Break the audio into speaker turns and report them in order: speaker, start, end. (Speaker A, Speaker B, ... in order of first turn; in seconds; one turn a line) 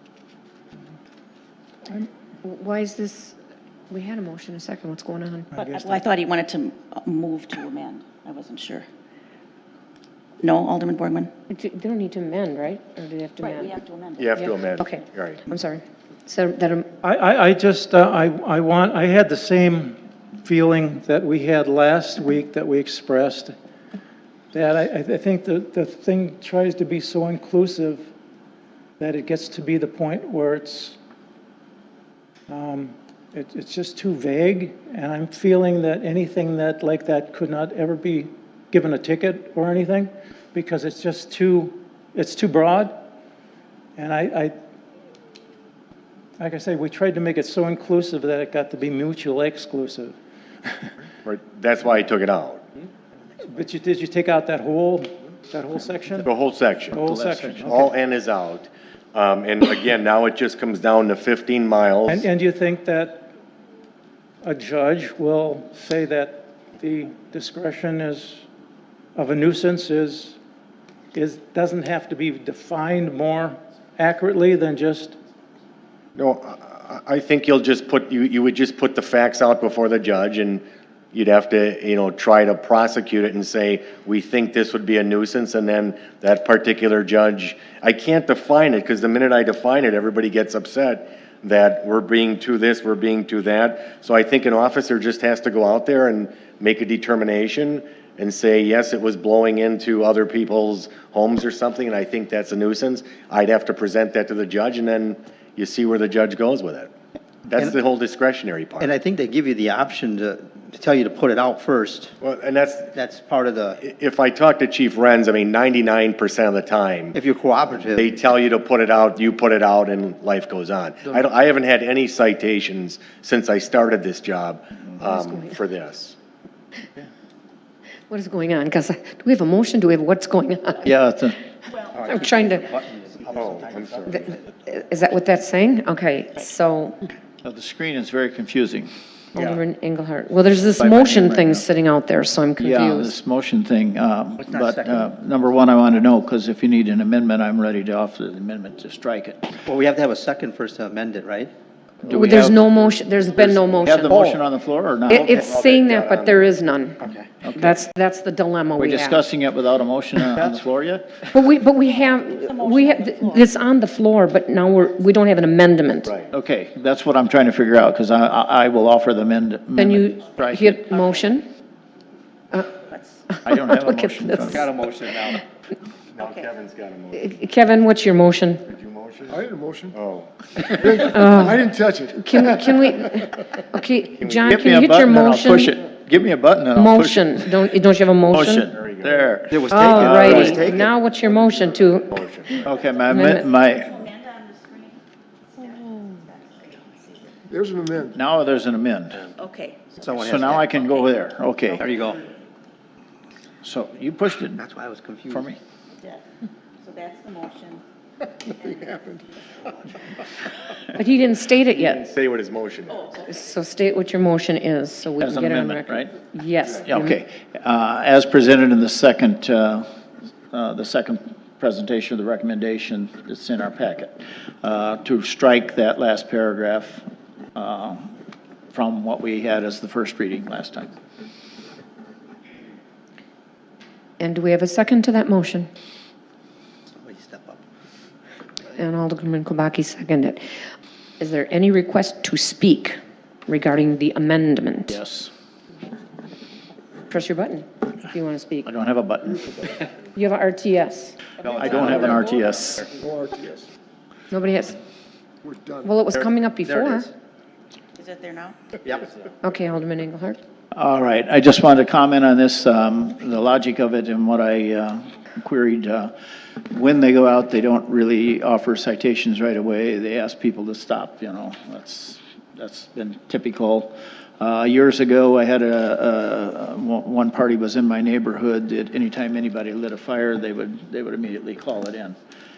Speaker A: 1.9-3.4
Speaker A: 3.9-5.6
Speaker B: 5.5-6.0
Speaker C: 5.7-8.8
Speaker C: 10.4-11.3
Speaker A: 11.5-13.8
Speaker C: 13.4-14.5
Speaker D: 14.2-15.4
Speaker A: 14.4-16.9
Speaker B: 17.0-23.5
Speaker B: 24.5-28.0
Speaker B: 29.0-31.0
Speaker B: 32.5-43.0
Speaker B: 44.0-44.5
Speaker B: 46.4-50.1
Speaker D: 51.2-52.6
Speaker B: 53.5-56.3
Speaker D: 56.2-57.0
Speaker B: 56.9-57.9
Speaker E: 57.0-57.7
Speaker D: 57.6-62.2
Speaker B: 62.1-63.3
Speaker B: 64.4-68.4
Speaker B: 69.2-70.4
Speaker B: 71.1-75.2
Speaker D: 76.2-106.9
Speaker D: 107.5-108.9
Speaker F: 108.8-112.1
Speaker D: 112.2-112.9
Speaker F: 112.9-113.8
Speaker D: 113.8-117.2
Speaker F: 117.1-118.1
Speaker D: 117.9-126.2
Speaker A: 125.0-125.5
Speaker A: 128.1-130.9
Speaker E: 130.8-131.3
Speaker C: 131.7-132.1
Speaker F: 131.9-134.5
Speaker A: 132.0-132.7
Speaker D: 133.3-134.3
Speaker A: 134.1-137.0
Speaker E: 137.4-138.9
Speaker A: 139.3-143.1
Speaker E: 140.8-141.6
Speaker E: 142.6-149.5
Speaker F: 144.4-145.1
Speaker F: 149.6-151.5
Speaker E: 152.0-152.8
Speaker A: 152.1-154.2
Speaker E: 153.4-155.4
Speaker F: 153.8-154.4
Speaker A: 155.1-157.0
Speaker D: 155.2-156.4
Speaker E: 157.4-157.7
Speaker A: 157.5-159.2
Speaker E: 158.8-161.2
Speaker A: 161.3-166.2
Speaker C: 162.2-163.5
Speaker E: 166.3-170.8
Speaker A: 169.8-171.4
Speaker A: 173.3-174.6
Speaker E: 173.4-174.7
Speaker F: 174.6-175.4
Speaker D: 176.1-177.3
Speaker C: 176.2-176.4
Speaker A: 177.1-178.6
Speaker D: 178.7-181.1
Speaker G: 179.3-179.9
Speaker G: 180.8-182.7
Speaker A: 180.9-185.7
Speaker D: 184.2-184.6
Speaker E: 184.4-187.5
Speaker A: 186.7-188.7
Speaker E: 188.3-190.7
Speaker D: 188.7-189.3
Speaker F: 189.5-190.9
Speaker A: 189.7-193.5
Speaker D: 192.1-192.5
Speaker E: 192.6-194.1
Speaker C: 193.7-195.0
Speaker C: 195.6-197.3
Speaker A: 195.8-196.1
Speaker G: 197.5-198.1
Speaker E: 198.1-199.2
Speaker C: 199.4-201.1
Speaker F: 200.0-200.7
Speaker E: 200.1-201.9
Speaker F: 201.8-202.2
Speaker E: 203.6-204.6
Speaker F: 204.6-205.5
Speaker E: 205.3-205.6
Speaker C: 206.8-207.8
Speaker C: 208.4-209.0
Speaker A: 210.9-212.0
Speaker D: 211.7-213.1
Speaker A: 213.2-217.1
Speaker E: 215.2-216.2
Speaker E: 216.7-219.9
Speaker E: 220.5-228.1
Speaker E: 228.7-230.9
Speaker A: 234.2-235.7
Speaker F: 236.9-237.6
Speaker A: 238.7-240.4
Speaker A: 241.2-242.9
Speaker A: 243.5-244.9
Speaker E: 244.9-245.3
Speaker A: 247.1-248.7
Speaker E: 248.6-249.5
Speaker A: 250.1-251.3
Speaker F: 251.4-252.3
Speaker C: 251.5-252.1
Speaker E: 251.6-252.8
Speaker G: 252.9-253.7
Speaker A: 254.3-254.8
Speaker G: 255.4-255.9
Speaker A: 255.8-257.1
Speaker F: 256.1-257.1
Speaker C: 258.0-258.6
Speaker F: 258.8-259.1
Speaker A: 259.4-260.4
Speaker E: 260.7-266.1
Speaker E: 266.7-282.1